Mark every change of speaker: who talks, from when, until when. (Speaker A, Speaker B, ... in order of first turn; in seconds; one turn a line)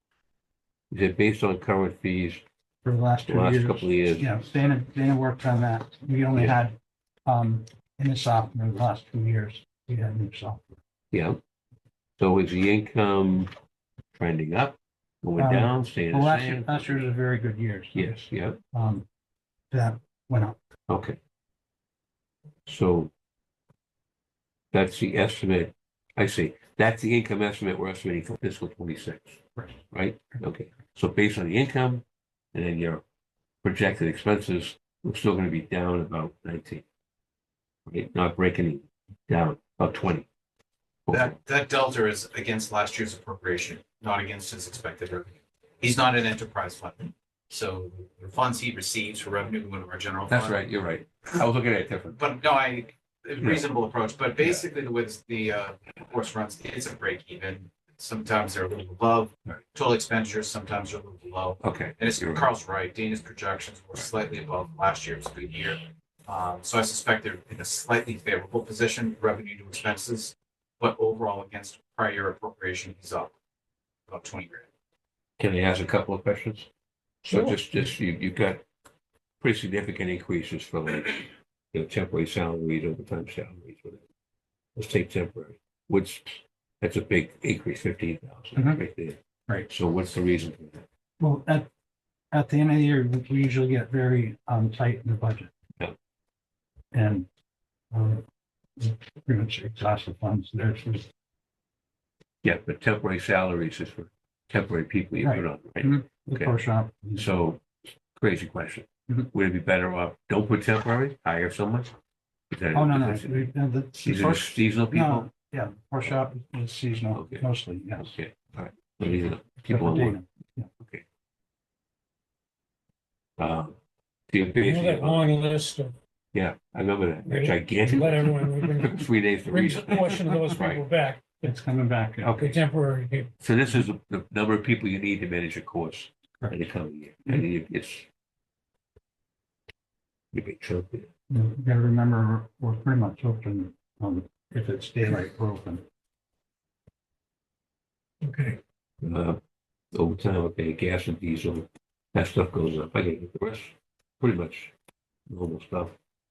Speaker A: 0.9-2.4
Speaker B: 2.8-10.8
Speaker A: 3.3-4.3
Speaker A: 11.1-11.4
Speaker A: 12.2-13.5
Speaker A: 14.1-17.0
Speaker B: 15.4-18.2
Speaker A: 17.9-18.6
Speaker B: 18.7-19.1
Speaker B: 19.7-20.6
Speaker A: 20.9-21.2
Speaker A: 22.7-23.1
Speaker A: 24.7-33.0
Speaker A: 33.6-36.9
Speaker A: 37.9-40.3
Speaker A: 41.1-41.4
Speaker C: 41.1-50.6
Speaker A: 50.3-52.2
Speaker C: 52.1-73.3
Speaker A: 61.6-62.5
Speaker C: 74.1-74.7
Speaker A: 75.4-76.7
Speaker A: 77.2-78.6
Speaker D: 77.3-77.5
Speaker A: 79.4-84.0
Speaker A: 84.8-90.8
Speaker B: 88.5-88.8
Speaker B: 91.2-91.7
Speaker B: 92.3-95.5
Speaker B: 96.9-97.3
Speaker B: 97.9-98.2
Speaker B: 98.8-101.1
Speaker A: 102.4-106.5
Speaker B: 105.2-107.3
Speaker A: 107.2-111.9
Speaker A: 112.5-113.5
Speaker B: 112.7-118.1
Speaker A: 114.0-115.3
Speaker A: 117.1-117.4
Speaker A: 118.0-120.2
Speaker B: 119.7-120.7
Speaker A: 123.4-123.8
Speaker A: 124.3-125.3
Speaker D: 124.6-125.9
Speaker A: 126.3-128.3
Speaker D: 127.2-131.5
Speaker A: 128.8-130.8
Speaker B: 131.4-132.4
Speaker A: 132.2-132.6
Speaker D: 132.4-133.3
Speaker A: 133.4-138.1
Speaker A: 140.3-141.1
Speaker B: 141.3-145.8
Speaker A: 148.3-149.4
Speaker A: 149.9-154.7
Speaker A: 155.3-155.9